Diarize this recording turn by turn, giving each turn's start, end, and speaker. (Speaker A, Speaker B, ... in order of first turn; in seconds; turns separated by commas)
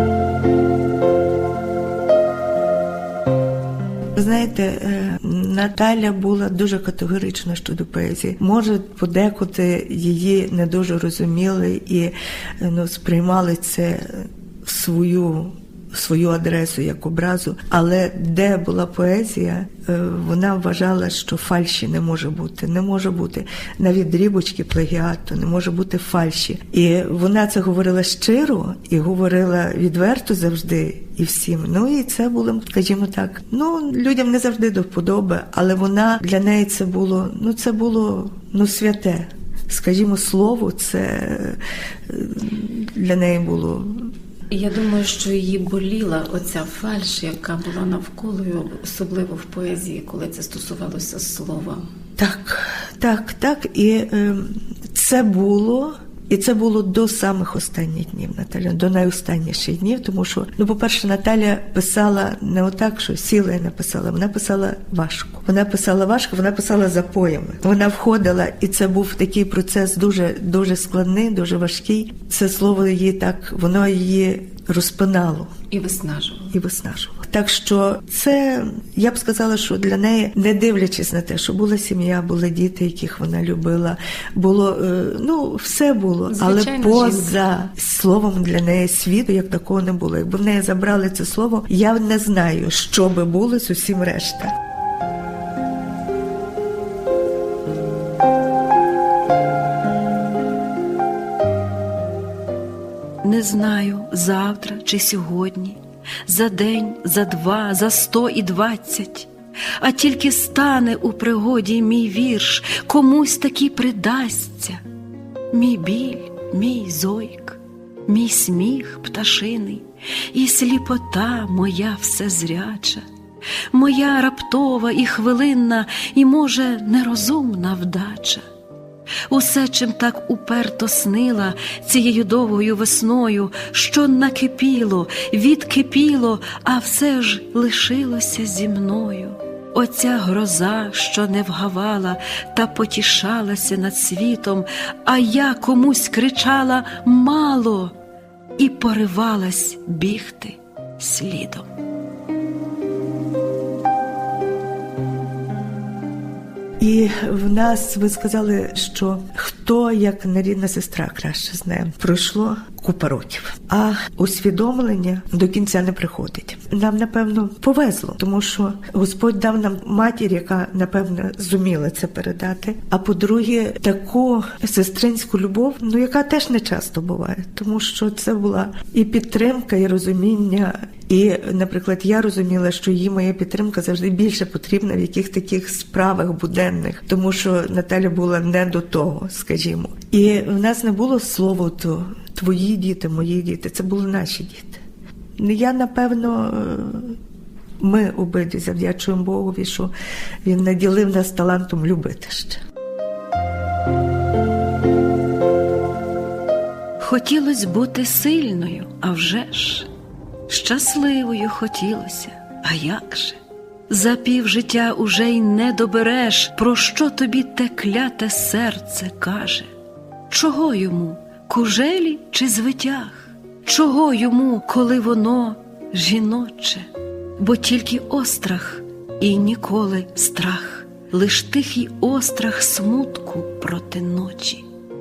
Speaker A: 4.2-44.1, Speaker B: 44.5-51.9, Speaker A: 52.2-75.5, Speaker B: 75.7-76.5, Speaker A: 76.5-94.6, Speaker B: 86.3-87.4, Speaker C: 103.2-114.8, Speaker C: 115.5-123.0, Speaker C: 123.7-128.4, Speaker C: 129.3-147.9, Speaker C: 148.6-151.7, Speaker A: 156.8-194.8, Speaker A: 195.4-197.2, Speaker A: 197.8-199.9, Speaker A: 200.4-202.6, Speaker C: 207.0-209.9, Speaker C: 210.5-213.4, Speaker C: 213.9-219.7, Speaker C: 220.3-226.9, Speaker C: 227.4-234.6